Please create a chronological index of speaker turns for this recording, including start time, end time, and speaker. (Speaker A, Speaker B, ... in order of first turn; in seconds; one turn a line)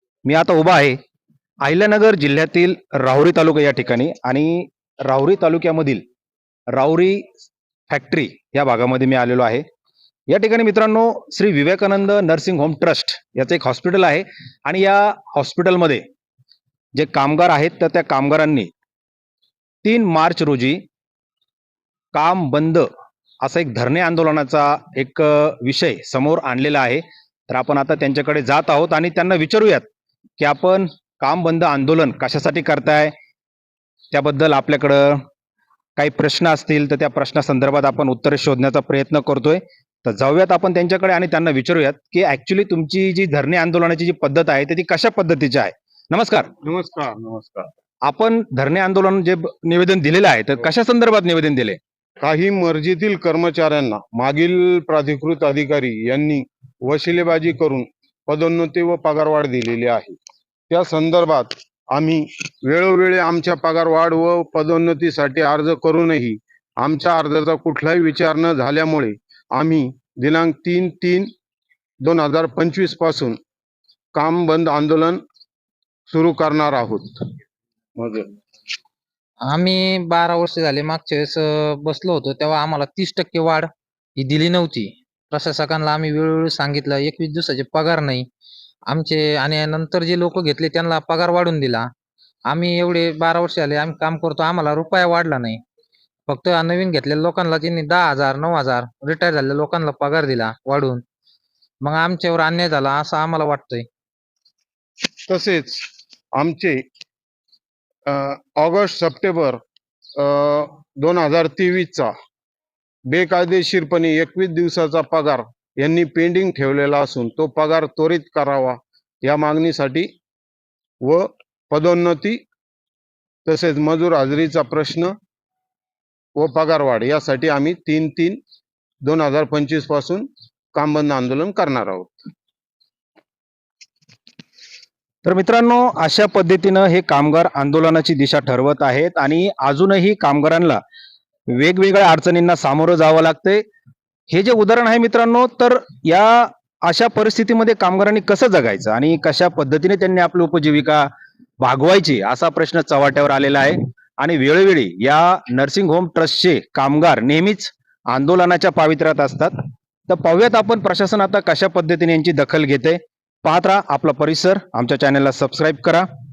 Speaker A: 0.2-1.0
Speaker A: 1.6-6.0
Speaker A: 6.7-7.3
Speaker A: 7.9-9.6
Speaker A: 10.3-16.1
Speaker A: 16.9-18.7
Speaker A: 19.8-20.8
Speaker A: 22.1-22.9
Speaker A: 23.4-29.9
Speaker A: 30.4-33.1
Speaker A: 34.1-35.2
Speaker A: 36.0-46.5
Speaker B: 46.6-47.7
Speaker A: 48.0-51.8
Speaker B: 52.2-60.2
Speaker B: 60.7-71.3
Speaker B: 72.0-73.4
Speaker B: 74.2-75.2
Speaker B: 76.1-77.3
Speaker B: 78.0-78.3
Speaker C: 79.5-88.3
Speaker C: 88.9-91.9
Speaker C: 92.5-95.6
Speaker C: 96.3-101.0
Speaker C: 101.8-103.9
Speaker B: 105.2-106.8
Speaker B: 108.1-109.6
Speaker B: 110.2-112.1
Speaker B: 113.1-120.1
Speaker B: 121.0-122.4
Speaker B: 123.5-125.1
Speaker B: 126.4-128.4
Speaker B: 129.0-132.2
Speaker A: 135.2-140.8
Speaker A: 141.5-143.6
Speaker A: 144.3-151.1
Speaker A: 151.6-159.6
Speaker A: 160.1-166.1